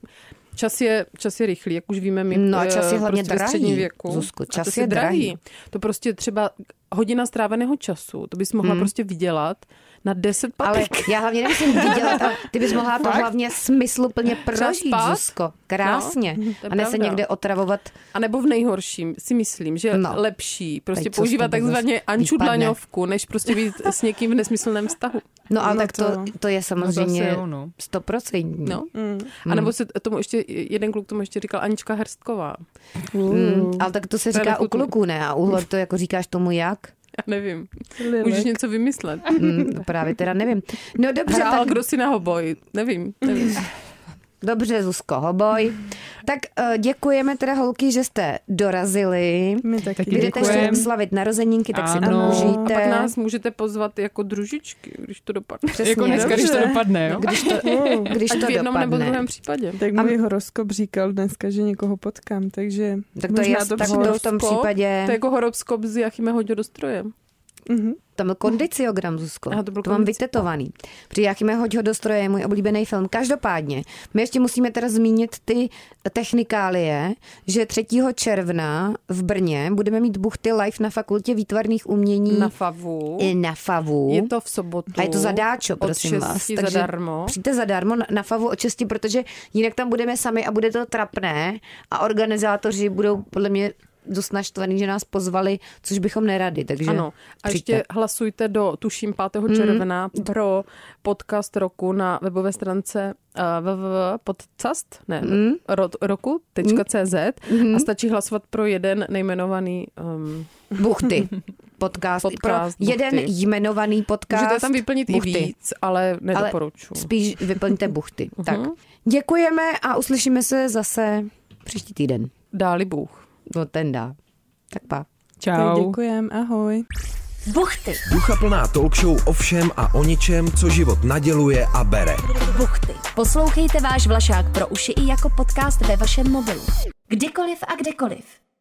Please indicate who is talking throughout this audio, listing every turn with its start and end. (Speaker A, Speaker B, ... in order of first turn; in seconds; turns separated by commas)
Speaker A: 0.5-12.4, Speaker B: 2.3-5.3, Speaker B: 8.6-8.9, Speaker B: 10.6-17.9, Speaker A: 14.5-17.2, Speaker A: 18.1-25.3, Speaker B: 19.9-20.2, Speaker B: 20.9-22.8, Speaker B: 25.5-28.8, Speaker C: 25.6-26.3, Speaker D: 26.8-27.7, Speaker A: 28.6-32.6, Speaker C: 28.9-29.3, Speaker B: 29.4-29.7, Speaker C: 33.1-33.7, Speaker B: 33.2-36.9, Speaker A: 34.3-34.9, Speaker A: 37.2-39.4, Speaker C: 38.0-38.5, Speaker B: 39.3-41.8, Speaker A: 41.3-43.7, Speaker B: 44.4-53.1, Speaker C: 49.6-50.9, Speaker D: 50.0-50.9, Speaker D: 51.7-52.6, Speaker C: 52.0-52.7, Speaker A: 52.4-55.9, Speaker B: 55.7-59.3, Speaker D: 55.8-57.3, Speaker C: 56.1-58.2, Speaker A: 58.3-59.9, Speaker C: 59.8-64.2, Speaker B: 63.1-65.2, Speaker A: 63.8-67.1, Speaker C: 67.7-68.0, Speaker B: 68.2-82.5, Speaker A: 69.5-70.2, Speaker A: 82.3-83.3, Speaker B: 83.2-84.3, Speaker A: 84.1-87.3, Speaker B: 84.9-97.8, Speaker A: 96.9-110.7, Speaker B: 99.5-100.2, Speaker B: 105.2-105.6, Speaker B: 107.5-107.9, Speaker B: 110.8-115.5, Speaker A: 112.2-113.3, Speaker A: 114.3-117.1, Speaker B: 116.3-122.3, Speaker A: 118.4-118.7, Speaker A: 122.5-123.2, Speaker B: 123.5-124.2, Speaker B: 124.7-125.0, Speaker D: 125.4-126.0, Speaker C: 125.5-126.8, Speaker E: 127.5-128.0, Speaker F: 128.1-132.2, Speaker E: 132.3-138.4